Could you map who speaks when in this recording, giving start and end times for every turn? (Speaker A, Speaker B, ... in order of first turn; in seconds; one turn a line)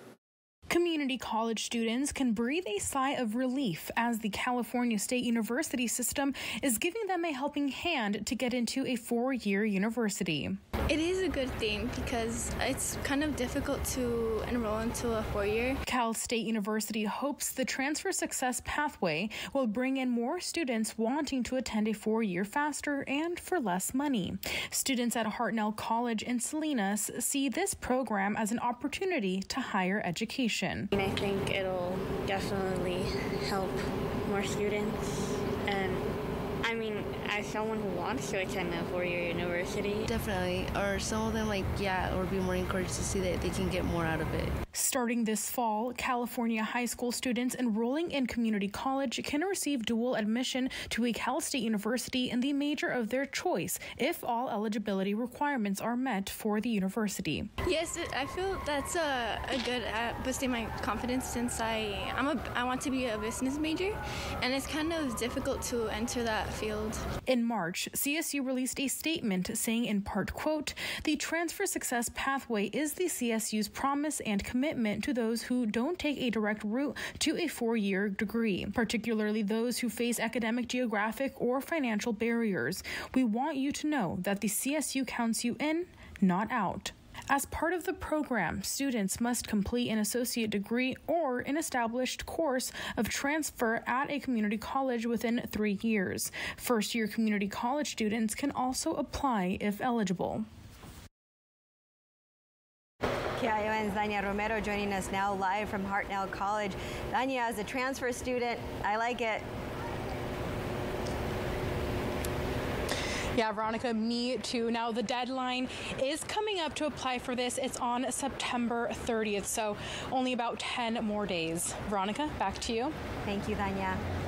Speaker A: 0.7-10.6
Speaker B: 10.9-15.8
Speaker A: 15.8-30.9
Speaker C: 30.9-35.0
Speaker C: 35.6-36.1
Speaker C: 36.6-40.1
Speaker D: 40.0-44.5
Speaker A: 44.7-57.5
Speaker B: 57.7-67.0
Speaker A: 67.3-100.5
Speaker E: 103.4-109.5
Speaker A: 113.3-122.9
Speaker E: 123.3-124.0